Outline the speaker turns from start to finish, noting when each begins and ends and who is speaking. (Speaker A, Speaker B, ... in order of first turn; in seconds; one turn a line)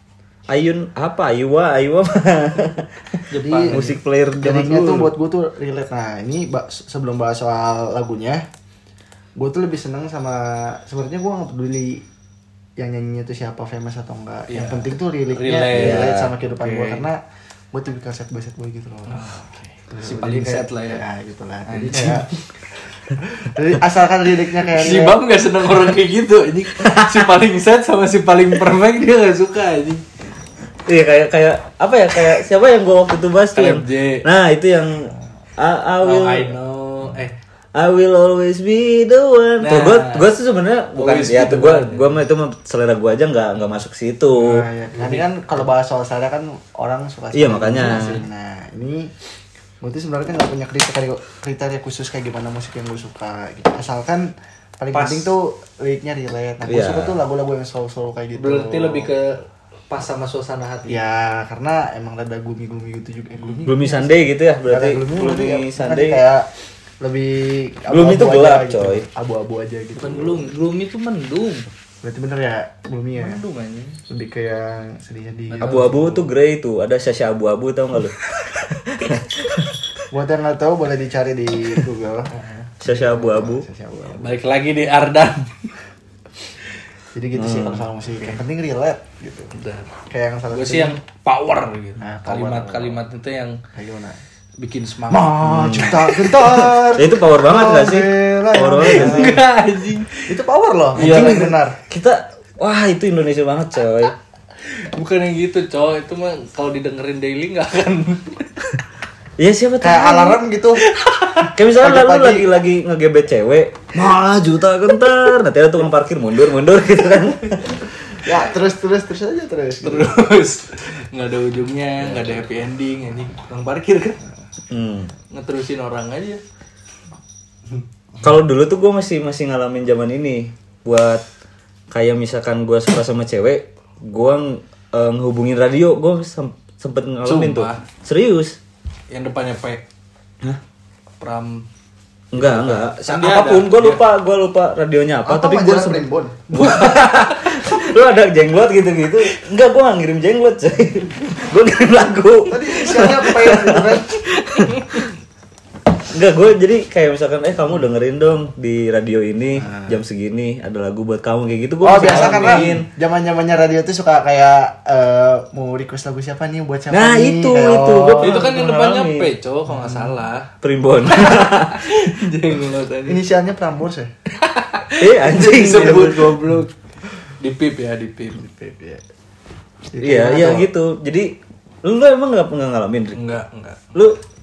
Speaker A: 0.5-2.9
Speaker B: 3.3-3.8
Speaker C: 3.4-8.4
Speaker A: 3.7-5.1
Speaker C: 9.3-12.0
Speaker C: 12.8-17.2
Speaker B: 14.5-17.1
Speaker A: 15.7-16.3
Speaker C: 17.7-25.2
Speaker B: 19.1-21.0
Speaker B: 21.7-22.3
Speaker B: 24.6-30.0
Speaker A: 26.8-27.2
Speaker A: 30.9-36.5
Speaker B: 33.5-34.2
Speaker B: 36.0-37.4
Speaker A: 37.7-44.7
Speaker B: 39.6-40.2
Speaker B: 41.0-42.1
Speaker C: 44.3-49.1
Speaker B: 44.9-45.3
Speaker A: 47.3-48.2
Speaker B: 47.8-48.2
Speaker C: 49.8-59.1
Speaker B: 54.9-55.3
Speaker A: 56.6-57.2
Speaker B: 58.3-61.0
Speaker C: 60.9-64.1
Speaker B: 63.4-63.7
Speaker A: 63.6-66.2
Speaker C: 64.7-66.5
Speaker C: 67.0-70.5
Speaker A: 67.9-69.0
Speaker B: 70.0-71.7
Speaker C: 72.0-73.4
Speaker B: 73.2-74.0
Speaker C: 74.1-76.2
Speaker B: 75.5-76.1
Speaker A: 75.6-79.7
Speaker C: 80.1-82.3
Speaker B: 82.3-82.7
Speaker A: 82.8-83.7
Speaker C: 82.8-84.4
Speaker B: 84.2-85.7
Speaker C: 87.1-89.5
Speaker A: 87.3-87.8
Speaker B: 89.5-89.9
Speaker C: 90.1-91.0
Speaker B: 90.5-93.6
Speaker C: 92.0-93.0
Speaker C: 93.7-94.2
Speaker B: 94.6-95.7
Speaker C: 95.1-99.4
Speaker A: 95.4-99.4
Speaker B: 98.8-100.3
Speaker C: 100.2-101.8
Speaker B: 101.0-101.5
Speaker A: 101.0-104.1
Speaker B: 104.9-108.7
Speaker A: 109.4-110.4
Speaker C: 109.8-110.8
Speaker B: 110.8-111.5
Speaker A: 111.5-117.9
Speaker C: 111.7-112.5
Speaker C: 118.2-120.2
Speaker B: 119.8-124.2
Speaker C: 122.0-122.3
Speaker A: 124.7-125.1
Speaker B: 125.3-126.4
Speaker A: 128.2-131.2
Speaker A: 131.9-138.6
Speaker B: 137.2-137.8
Speaker B: 139.1-139.8
Speaker B: 141.2-141.7
Speaker A: 142.3-155.0
Speaker B: 142.3-144.0
Speaker C: 145.2-146.4
Speaker B: 146.5-147.7
Speaker C: 152.4-154.2
Speaker B: 154.6-155.0
Speaker A: 156.1-162.9
Speaker C: 159.6-160.0
Speaker C: 161.8-168.5
Speaker B: 161.9-162.8
Speaker A: 166.9-169.3
Speaker B: 168.1-170.5
Speaker C: 169.7-170.2
Speaker A: 170.6-171.9
Speaker B: 171.1-173.2
Speaker C: 173.1-174.1
Speaker B: 174.3-176.7
Speaker A: 175.0-176.3
Speaker C: 175.7-176.2
Speaker B: 177.4-178.8
Speaker C: 179.9-180.7
Speaker A: 180.0-183.2
Speaker B: 183.1-184.0